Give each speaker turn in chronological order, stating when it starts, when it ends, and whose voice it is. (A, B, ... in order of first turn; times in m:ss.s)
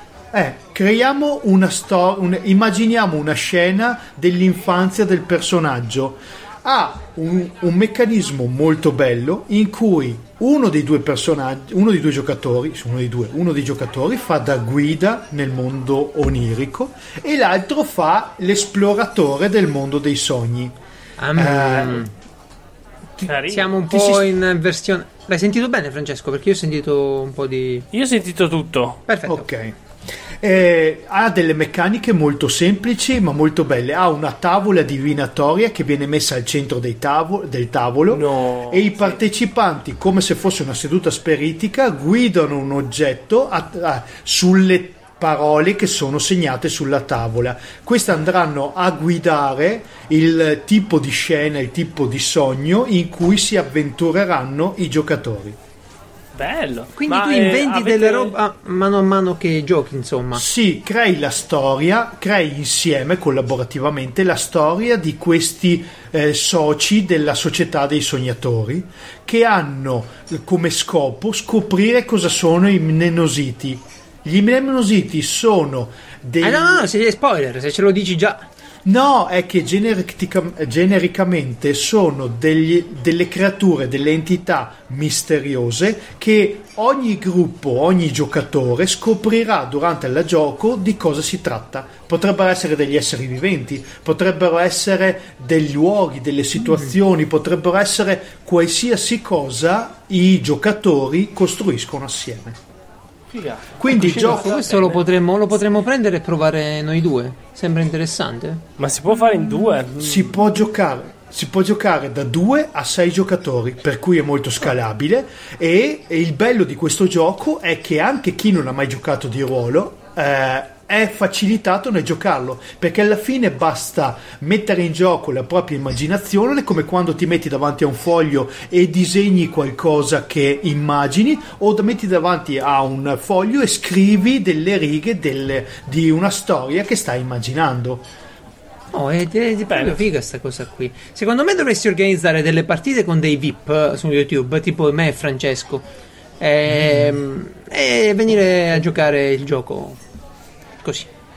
0:00.3-0:20.7 A
0:21.2-0:22.1 B
0:21.4-0:22.1 A
0:23.2-0:27.9 B
0:23.2-0:23.8 C
0:23.9-0:24.2 A
0:27.9-0:29.0 C
0:29.1-0:29.5 B
0:29.3-0:29.8 A
0:30.4-0:55.6 A
0:38.1-0:39.2 C
0:56.4-0:58.3 C
0:57.0-1:00.4 B
1:00.4-1:16.8 A
1:16.4-1:18.5 B
1:18.8-1:42.6 A
1:36.6-1:37.0 B
1:43.3-1:45.0 C
1:43.8-1:44.5 A
1:43.9-1:48.6 B
1:48.8-1:50.4 C
1:50.0-2:18.1 A
2:18.9-2:25.8 B
2:19.7-2:20.0 C
2:26.4-2:30.0 B
2:30.8-2:31.1 B